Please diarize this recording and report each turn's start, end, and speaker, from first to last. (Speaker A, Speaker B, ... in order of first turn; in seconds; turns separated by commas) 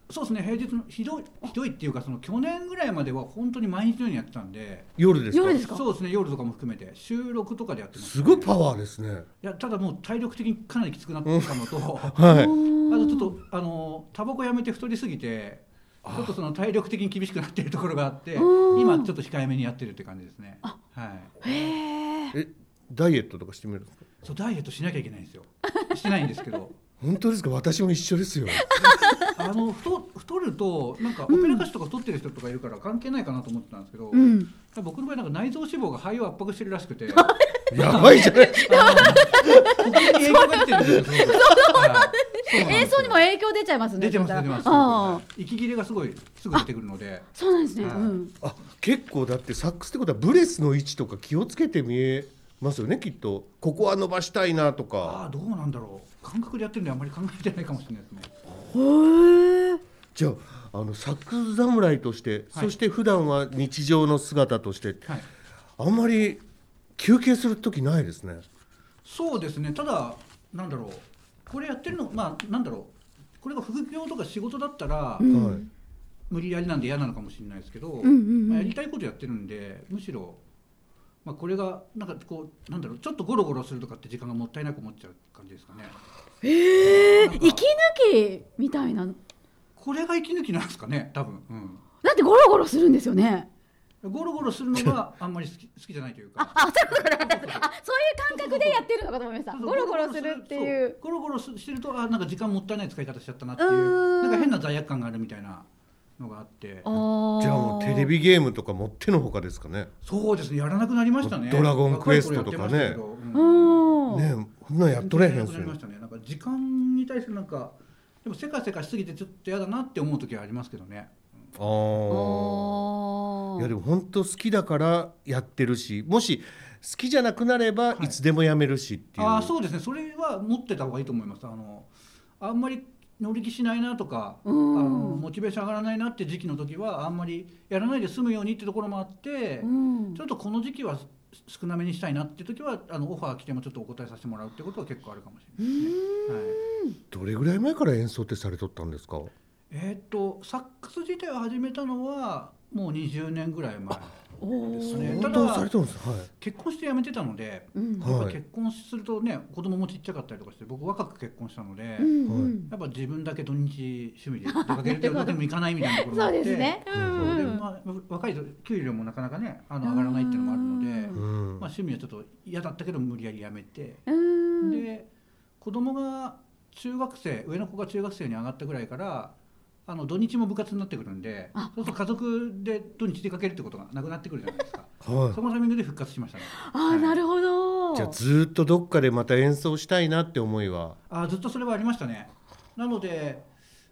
Speaker A: 0.1-5.0, Speaker B: 5.0-5.7, Speaker C: 5.3-5.8, Speaker A: 5.5-8.5, Speaker B: 8.0-9.3, Speaker A: 9.4-12.3, Speaker B: 11.2-11.5, Speaker B: 12.1-12.6, Speaker C: 12.2-13.3, Speaker A: 12.9-21.7, Speaker B: 16.0-16.3, Speaker C: 18.4-19.1, Speaker C: 21.4-22.3, Speaker B: 22.3-24.0, Speaker A: 24.2-26.7, Speaker B: 27.0-28.7, Speaker C: 28.6-29.3, Speaker A: 28.7-43.2, Speaker C: 31.3-31.7, Speaker C: 34.1-34.5, Speaker C: 37.1-45.2, Speaker B: 37.7-39.8, Speaker B: 40.8-41.8, Speaker A: 44.0-47.3, Speaker C: 47.3-48.3, Speaker A: 47.8-48.1, Speaker B: 48.4-55.2, Speaker A: 55.0-58.3, Speaker C: 58.7-59.8, Speaker B: 60.1-65.1, Speaker B: 65.8-66.4, Speaker B: 67.0-68.4, Speaker A: 69.0-75.3, Speaker C: 75.2-75.7, Speaker B: 75.3-75.6, Speaker A: 76.3-80.4, Speaker C: 78.0-78.7, Speaker A: 81.2-86.0, Speaker C: 86.4-89.2, Speaker A: 86.9-87.7, Speaker A: 89.8-91.8, Speaker C: 92.0-93.5, Speaker A: 94.0-97.7, Speaker C: 96.4-101.0, Speaker A: 98.3-98.8, Speaker A: 99.5-105.7, Speaker C: 103.6-104.5, Speaker A: 106.2-106.9, Speaker C: 106.8-108.1, Speaker B: 107.4-109.9, Speaker A: 110.0-113.9, Speaker B: 111.2-113.0, Speaker C: 113.3-114.3, Speaker B: 114.1-115.8, Speaker A: 114.9-121.5, Speaker B: 121.5-122.8, Speaker C: 122.1-123.7, Speaker B: 123.6-129.5, Speaker A: 127.9-128.2, Speaker A: 129.2-146.6, Speaker C: 134.4-135.2, Speaker C: 139.6-140.2, Speaker C: 145.6-147.0, Speaker B: 147.1-149.3, Speaker A: 149.7-155.7, Speaker C: 154.4-155.3, Speaker B: 154.9-156.3, Speaker A: 156.4-162.1, Speaker C: 157.7-158.1, Speaker B: 158.0-158.4, Speaker C: 162.0-162.7, Speaker B: 162.3-162.5, Speaker A: 162.7-174.0, Speaker C: 164.5-167.6, Speaker B: 166.9-167.5, Speaker C: 169.8-171.2, Speaker B: 171.1-171.7, Speaker C: 174.1-174.8, Speaker A: 174.6-175.1, Speaker A: 175.6-179.3, Speaker A: 179.9-187.2, Speaker C: 181.5-181.9, Speaker B: 185.0-185.4, Speaker C: 186.5-188.2, Speaker B: 187.9-191.0, Speaker A: 191.1-193.4